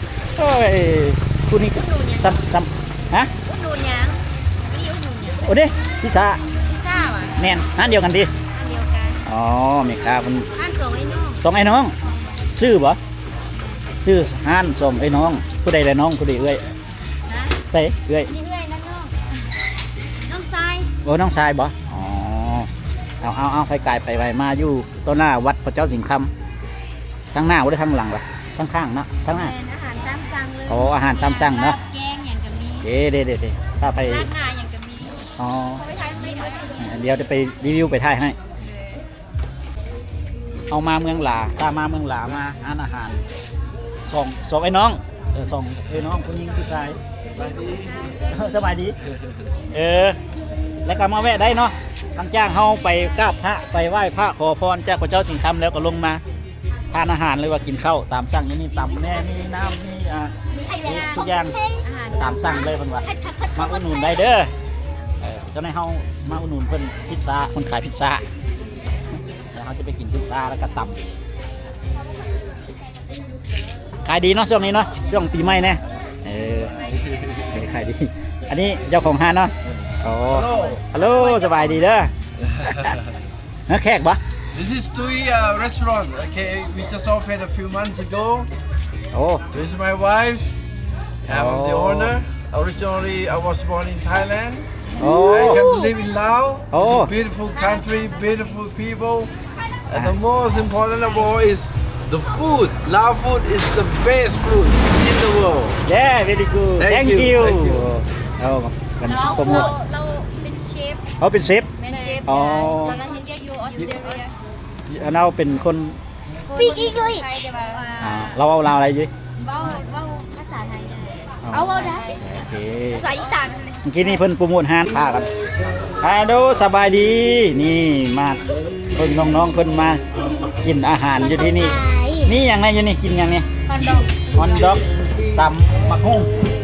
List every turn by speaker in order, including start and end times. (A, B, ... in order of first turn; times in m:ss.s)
0:00.4-0:03.3 A
0:01.7-0:02.4 B
0:03.4-0:05.5 B
0:05.4-0:06.4 A
0:06.6-0:07.4 B
0:07.4-0:08.3 A
0:08.5-0:09.2 B
0:09.2-0:10.5 A
0:10.6-0:11.4 B
0:11.4-0:11.9 A
0:12.5-0:13.0 A
0:14.0-0:16.6 A
0:17.3-0:17.5 B
0:17.7-0:18.3 A
0:18.3-0:19.1 B
0:20.2-0:20.9 B
0:21.0-0:22.7 A
0:23.2-0:26.3 A
0:27.3-0:29.5 A
0:29.3-0:32.8 B
0:30.7-0:31.8 A
0:32.8-0:34.3 A
0:34.0-0:36.9 B
0:35.4-0:35.8 A
0:36.8-0:38.4 A
0:40.7-0:43.2 A
0:44.1-0:47.0 A
0:47.6-0:48.3 B
0:48.3-0:48.9 A
0:49.7-0:50.2 A
0:50.8-0:56.2 A
0:56.9-1:00.3 A
1:00.5-1:01.8 C
1:00.8-1:01.5 A
1:01.8-1:02.6 B
1:02.1-1:03.0 A
1:03.0-1:04.2 C
1:03.6-1:04.5 A
1:05.2-1:08.2 A
1:09.5-1:11.0 A
1:14.0-1:16.7 A
1:17.3-1:22.1 A
1:20.3-1:20.8 D
1:21.0-1:21.8 B
1:23.7-1:24.2 A
1:24.5-1:28.5 D
1:29.1-1:29.4 A
1:29.5-1:30.5 D
1:31.3-1:32.2 A
1:31.3-1:34.6 D
1:35.0-1:35.6 A
1:35.0-1:35.9 C
1:35.2-1:39.3 D
1:36.7-1:37.1 A
1:37.5-1:38.6 B
1:39.9-1:45.8 D
1:45.8-1:49.7 A
1:46.8-1:47.9 D
1:49.1-1:51.0 B
1:51.2-1:51.7 A
1:51.8-1:54.3 B
1:52.2-1:53.0 A
1:54.9-1:56.0 A
1:56.4-1:58.3 B
1:56.5-1:57.4 C
1:58.0-1:59.1 A
1:59.4-2:02.2 B
2:01.4-2:03.1 A
2:01.5-2:02.1 C
2:02.9-2:03.7 B
2:03.8-2:05.3 A
2:06.0-2:08.4 A
2:08.9-2:10.0 A
2:10.6-2:13.4 A
2:11.2-2:12.3 C
2:13.7-2:14.0 B
2:14.3-2:14.8 A
2:15.3-2:16.3 A